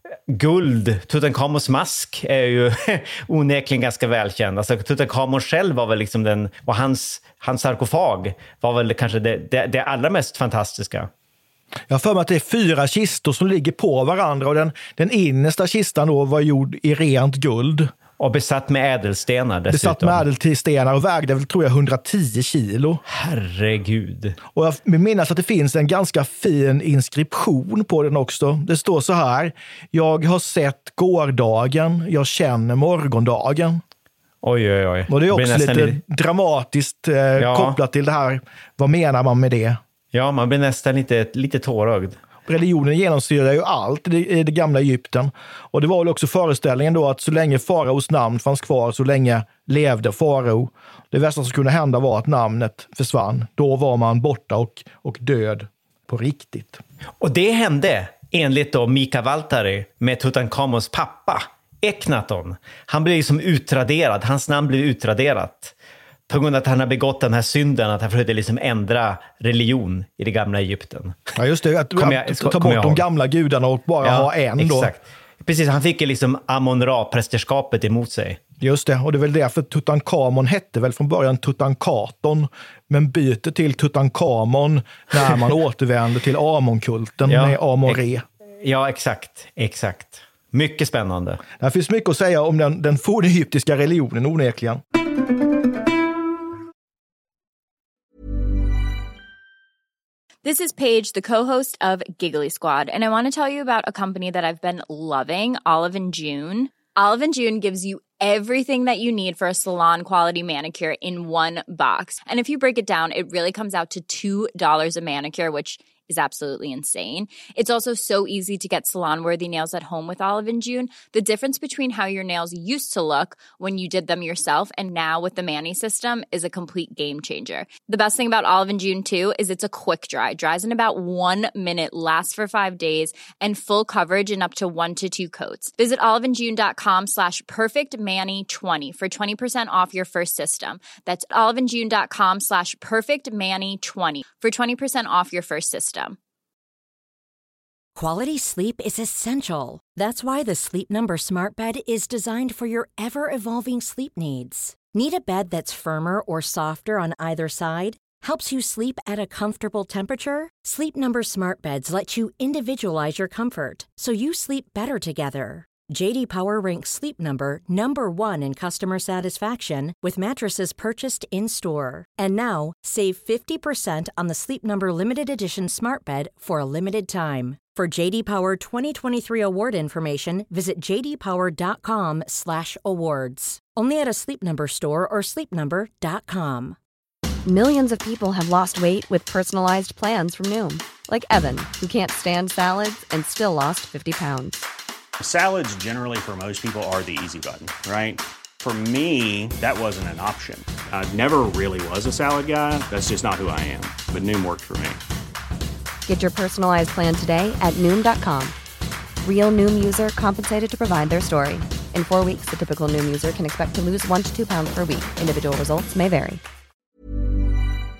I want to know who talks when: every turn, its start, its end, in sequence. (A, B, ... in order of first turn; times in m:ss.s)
0:00.3-0:11.1 A
0:11.9-0:17.9 B
0:18.2-0:20.2 A
0:19.7-0:23.0 B
0:23.1-0:24.4 A
0:24.5-0:33.8 B
0:34.4-0:36.0 A
0:35.1-0:39.8 B
0:37.4-0:37.8 A
0:40.1-0:42.2 A
0:42.5-0:56.8 B
0:57.2-1:05.7 A
1:06.3-1:11.2 A
1:11.4-1:14.9 B
1:12.0-1:13.0 A
1:14.0-1:18.4 A
1:18.6-1:28.2 B
1:27.3-1:28.0 A
1:28.6-1:31.4 A
1:31.6-1:34.8 B
1:40.4-2:26.2 C
2:28.0-3:06.8 D
3:07.4-3:14.7 E
3:15.2-3:25.0 F
3:26.1-3:28.5 E
3:29.2-3:36.4 E